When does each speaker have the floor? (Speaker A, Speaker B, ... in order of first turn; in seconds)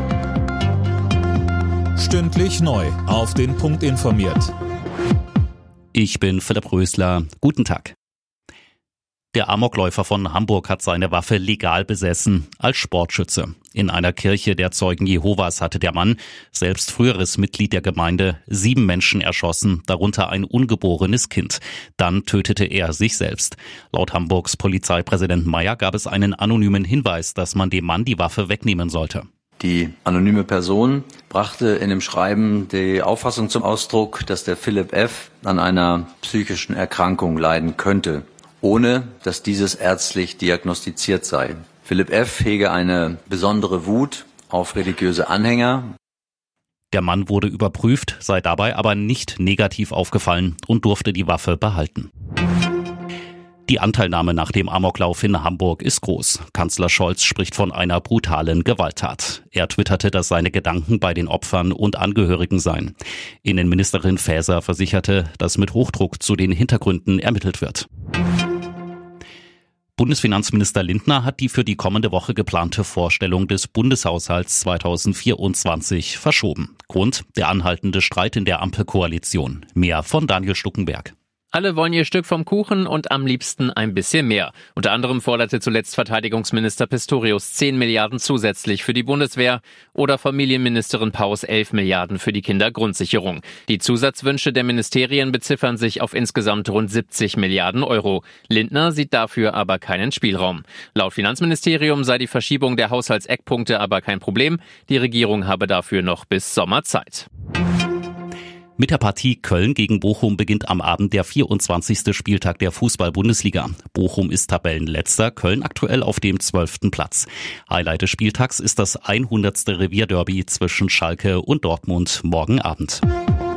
Speaker A: 2.0-4.5
Speaker B: 5.9-7.9, 9.3-29.2, 46.9-52.1, 53.7-67.9, 70.0-81.1, 108.8-123.0
Speaker C: 29.6-45.9
Speaker D: 81.5-107.3